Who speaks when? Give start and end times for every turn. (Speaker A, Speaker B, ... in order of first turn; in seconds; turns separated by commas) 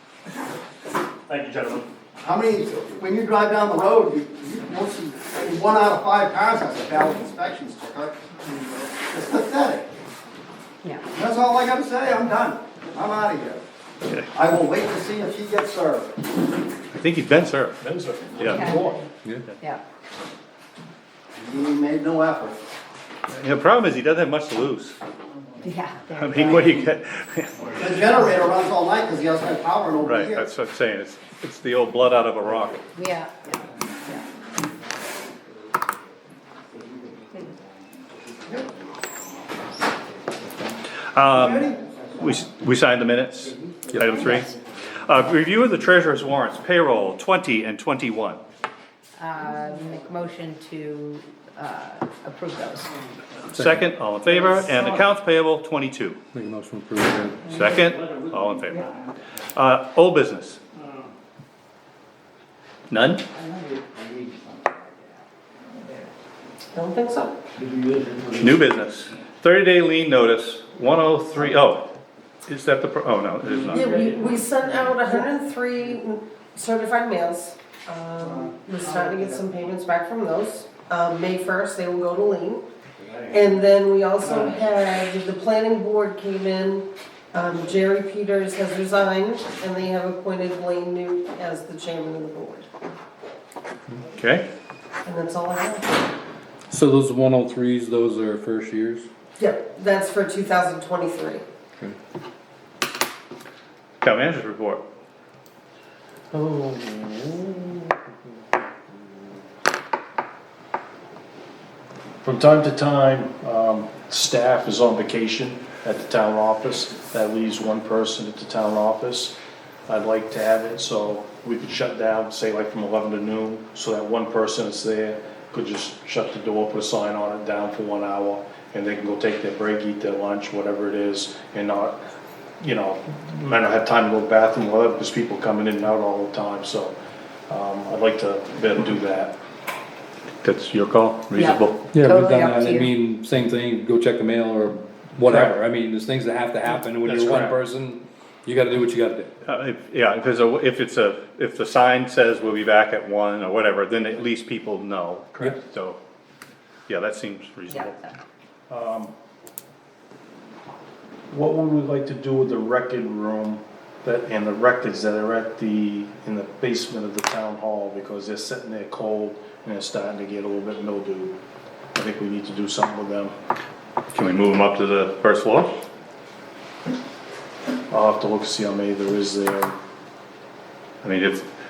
Speaker A: 1.3-1.8, Speaker B: 2.2-9.9, Speaker B: 11.1-13.6, Speaker B: 14.3-16.1, Speaker C: 16.9-17.8, Speaker D: 17.8-19.0, Speaker C: 18.4-18.7, Speaker E: 18.4-19.0, Speaker B: 21.4-22.6, Speaker C: 23.3-25.0, Speaker E: 25.6-26.8, Speaker C: 26.1-27.8, Speaker B: 27.8-30.5, Speaker C: 30.0-32.9, Speaker E: 32.9-34.2, Speaker A: 36.7-39.3, Speaker C: 41.1-48.4, Speaker A: 43.6-43.9, Speaker E: 44.0-44.5, Speaker E: 49.2-52.9, Speaker C: 53.5-56.2, Speaker F: 56.4-57.4, Speaker C: 57.5-58.9, Speaker C: 59.5-60.6, Speaker C: 62.9-63.2, Speaker A: 63.5-65.0, Speaker A: 66.7-68.4, Speaker C: 68.3-71.9, Speaker C: 72.5-74.0, Speaker A: 73.7-82.7, Speaker A: 83.2-92.7, Speaker C: 94.1-94.5, Speaker A: 95.0-96.0, Speaker F: 96.7-99.0, Speaker A: 99.4-101.4, Speaker C: 104.0-104.8, Speaker D: 106.3-107.8, Speaker D: 112.2-119.3, Speaker D: 119.9-132.0, Speaker D: 132.6-136.9, Speaker D: 137.5-139.3, Speaker C: 140.4-141.8, Speaker E: 141.3-142.9, Speaker F: 141.9-149.3, Speaker D: 145.2-145.5, Speaker D: 146.9-147.5, Speaker C: 149.4-156.0, Speaker C: 156.9-158.0, Speaker E: 157.7-158.1, Speaker D: 158.7-159.1, Speaker D: 161.3-171.3, Speaker D: 171.9-173.3, Speaker C: 174.1-175.7, Speaker D: 177.9-179.7, Speaker C: 181.0-181.4